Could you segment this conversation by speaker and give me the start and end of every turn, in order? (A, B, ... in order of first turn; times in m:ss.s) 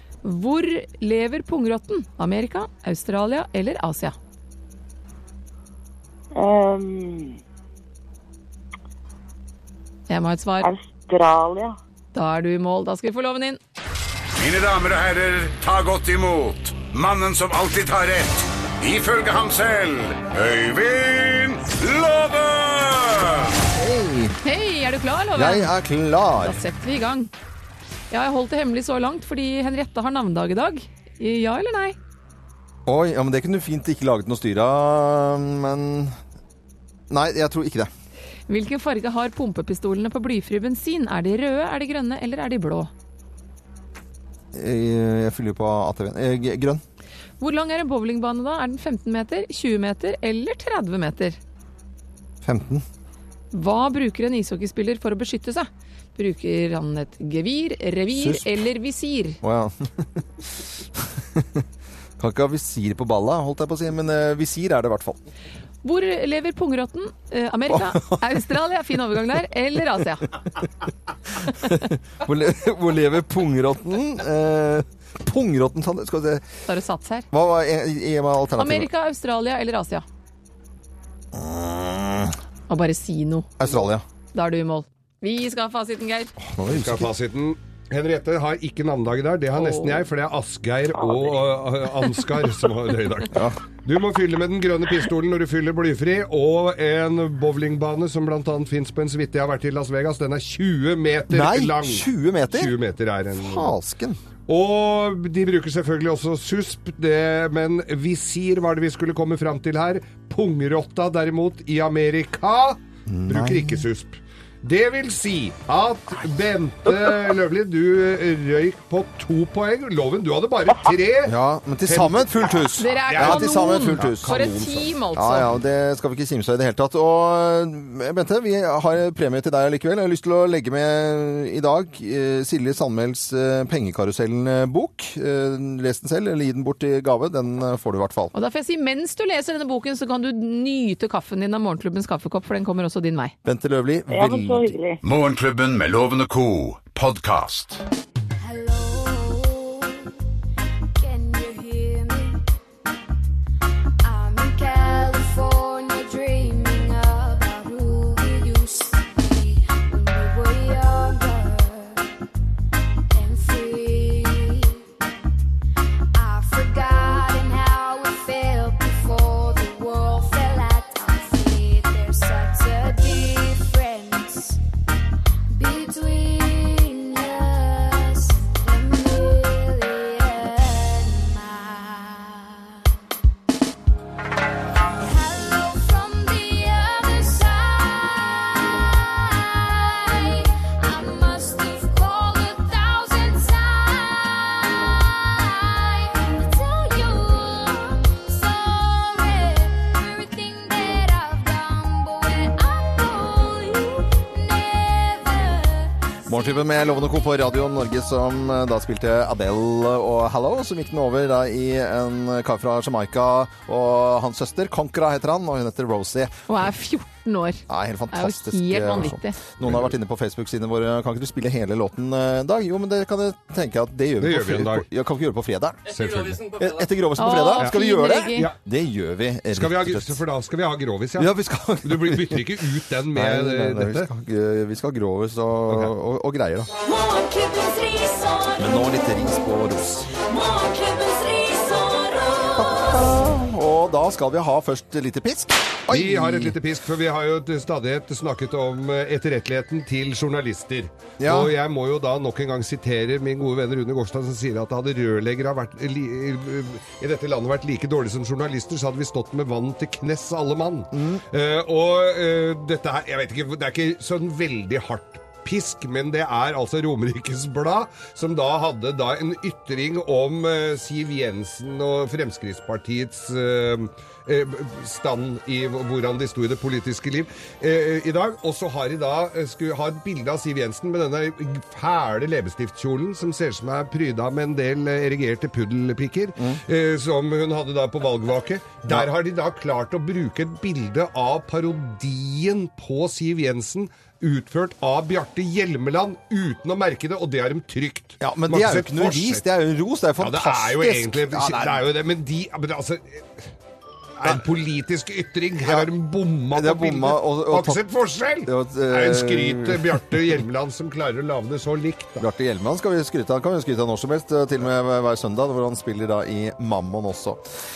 0:00.2-0:04.2 A
0:06.3-0:07.4 B
0:10.1-0:10.7 A
0:10.6-0:11.8 B
0:12.1-0:13.6 A
0:14.3-0:23.5 C
0:23.7-0:24.4 D
0:24.4-0:25.7 A
0:25.3-0:26.6 D
0:26.4-0:27.3 A
0:28.1-0:32.0 A
0:32.8-0:36.2 D
0:37.1-0:37.9 D
0:38.5-0:42.9 A
0:44.5-0:46.8 D
0:47.4-0:51.4 A
0:52.4-0:52.8 D
0:53.5-0:59.4 A
0:58.2-0:58.5 D
0:59.4-1:00.2 D
1:01.0-1:01.6 D
1:02.2-1:05.2 D
1:05.8-1:10.3 A
1:07.7-1:08.2 D
1:11.4-1:16.4 D
1:16.7-1:17.2 A
1:17.3-1:18.9 D
1:18.6-1:20.0 A
1:21.3-1:22.4 D
1:22.7-1:23.5 A
1:23.6-1:24.0 D
1:24.3-1:26.3 A
1:26.4-1:27.1 D
1:26.7-1:43.7 E
1:29.6-1:30.0 A
1:33.3-1:33.6 D
1:41.3-1:42.7 D
1:43.3-1:44.2 D
1:44.5-2:04.9 E
1:53.1-1:53.8 D
2:01.2-2:04.4 D
2:02.8-2:05.5 A
2:05.1-2:18.3 D
2:18.3-2:23.3 A
2:23.4-2:24.8 D
2:24.1-2:25.0 B
2:25.0-2:27.8 C
2:28.4-2:30.1 F
2:31.0-2:32.4 F
2:34.0-2:42.0 F
2:43.1-2:44.8 F
2:46.1-2:54.6 F
2:55.5-3:02.8 F
3:05.0-3:27.1 F
3:26.3-3:36.4 D
3:36.5-3:39.4 A
3:37.7-3:50.2 D
3:39.6-3:39.9 E
3:44.2-3:44.9 E
3:45.9-3:46.5 E
3:47.2-3:48.5 A
3:49.5-3:54.1 E
3:51.2-3:52.6 D
3:53.1-3:56.7 D
3:55.7-3:55.9 E
3:56.8-3:58.6 G
3:58.6-4:00.1 D
4:00.3-4:02.6 G
4:02.6-4:06.6 D
4:05.9-4:59.4 E
4:11.2-4:11.5 D
4:20.9-4:21.2 D
4:58.2-5:01.8 D
5:00.2-5:03.5 E
5:04.2-5:12.2 E
5:05.6-5:05.9 D
5:06.5-5:07.8 D
5:08.4-5:10.0 D
5:12.2-5:17.4 D